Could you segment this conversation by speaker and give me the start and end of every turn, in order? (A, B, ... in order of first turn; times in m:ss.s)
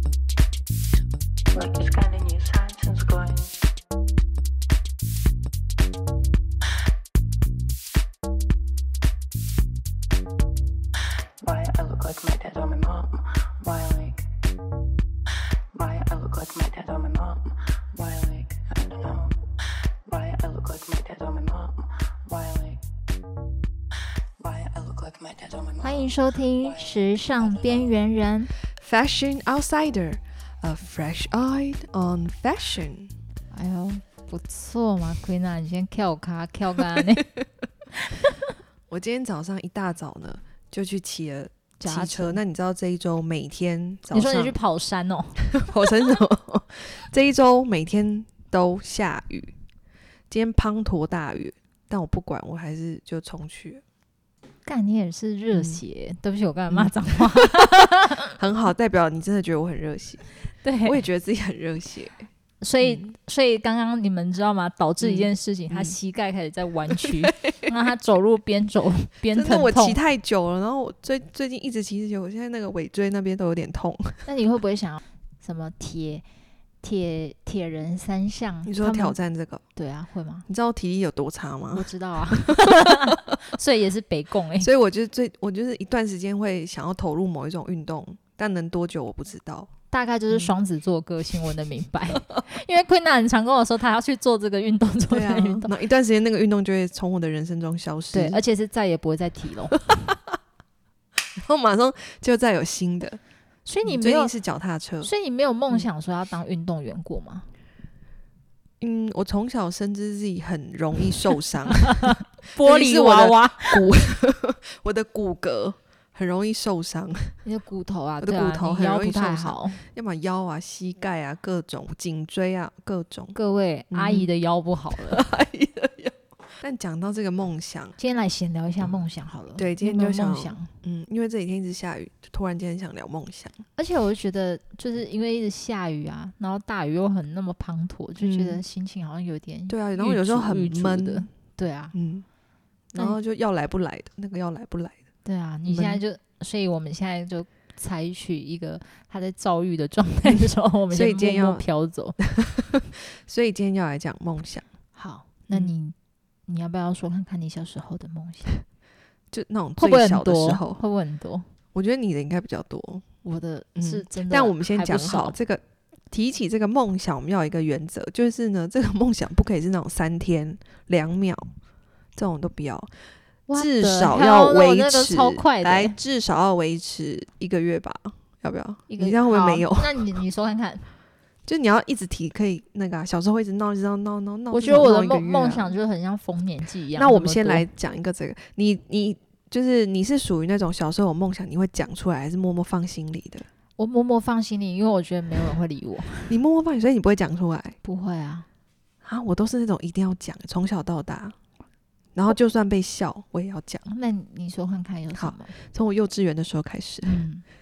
0:01.5-0:03.5 A
0:11.4-0:14.3 A
0:15.7-0:19.4 A
0:20.0-0:22.8 A
0:24.4-0:27.9 A
0:25.8-0:28.5 B
0:28.8-0:33.1 C
0:33.5-0:37.3 B
0:38.0-0:38.5 B
0:38.9-0:44.6 C
0:41.8-0:42.4 B
0:44.1-0:45.4 B
0:45.5-0:49.5 C
0:50.3-0:53.8 C
0:54.6-0:58.4 B
0:55.5-0:55.8 C
0:56.7-0:57.7 C
0:58.4-1:00.2 C
1:00.6-1:01.0 B
1:00.9-1:02.3 C
1:02.6-1:10.0 B
1:02.8-1:03.1 C
1:05.0-1:06.0 C
1:07.0-1:07.7 C
1:09.3-1:14.3 C
1:14.3-1:16.2 B
1:16.8-1:19.2 B
1:18.7-1:19.6 C
1:19.8-1:20.5 B
1:20.5-1:23.2 C
1:21.7-1:24.7 B
1:24.6-1:29.7 C
1:29.9-1:35.7 B
1:35.1-1:38.4 C
1:38.1-1:39.8 B
1:39.9-1:40.2 C
1:41.4-1:43.2 C
1:43.7-1:44.3 B
1:43.8-1:45.1 C
1:45.0-1:47.5 B
1:48.8-1:57.4 C
1:51.8-1:53.8 B
1:57.4-1:59.8 B
1:58.2-2:03.4 C
2:03.4-2:05.2 B
2:03.9-2:04.3 C
2:04.9-2:08.0 C
2:08.0-2:10.7 B
2:09.6-2:13.6 C
2:13.8-2:21.9 B
2:18.2-2:18.6 C
2:19.7-2:21.3 C
2:21.9-2:22.3 C
2:22.9-2:25.0 C
2:25.2-2:32.2 B
2:25.7-2:26.0 C
2:30.9-2:31.6 C
2:32.2-2:34.6 C
2:35.0-2:36.0 B
2:36.5-2:38.6 B
2:39.3-2:40.8 C
2:39.8-2:41.5 B
2:41.7-2:43.0 C
2:43.2-2:45.4 B
2:43.8-2:51.4 C
2:52.2-2:52.9 C
2:53.5-2:56.0 B
2:53.5-3:00.0 C
2:58.9-3:00.9 B
3:01.5-3:05.8 C
3:04.5-3:07.7 B
3:07.0-3:13.5 C
3:13.8-3:16.4 B
3:16.3-3:17.8 C
3:17.8-3:18.5 B
3:19.0-3:21.4 C
3:22.2-3:23.9 C
3:23.9-3:25.6 B
3:25.2-3:27.2 C
3:27.0-3:27.4 B